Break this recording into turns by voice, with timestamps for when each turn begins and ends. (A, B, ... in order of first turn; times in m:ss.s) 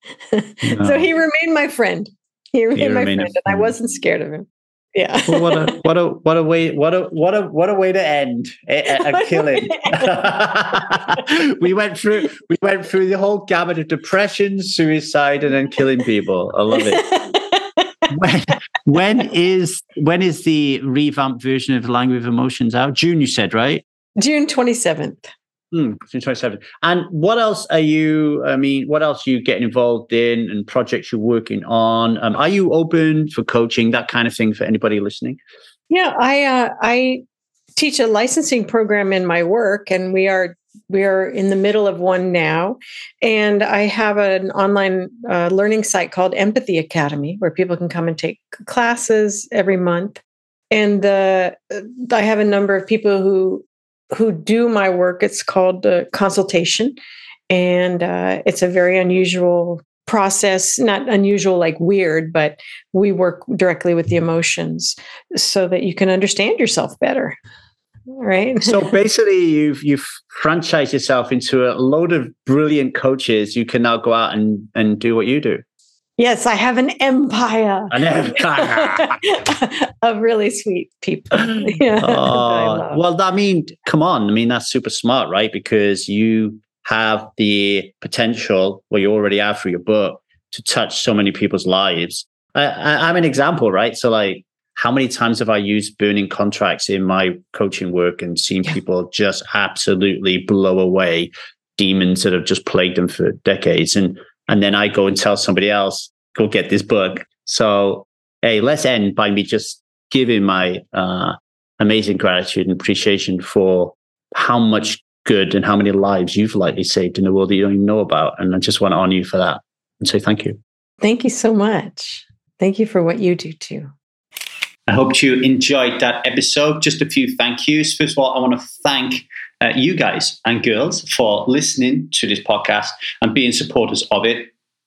0:00.3-0:05.8 A
0:00.6-0:01.1 B
0:02.8-0:03.7 B
0:05.3-0:17.1 B
0:08.9-0:10.3 A
0:16.7-0:18.1 A
0:18.1-0:23.8 B
0:24.2-0:25.3 A
0:25.7-0:35.4 B
0:35.9-0:37.2 A
0:37.8-0:57.0 A
0:57.5-1:07.4 A
1:08.1-1:08.9 A
1:08.6-1:15.6 B
1:16.2-1:23.0 A
1:17.9-1:19.1 B
1:21.7-2:00.6 B
2:01.0-2:03.9 A
2:04.9-2:14.5 B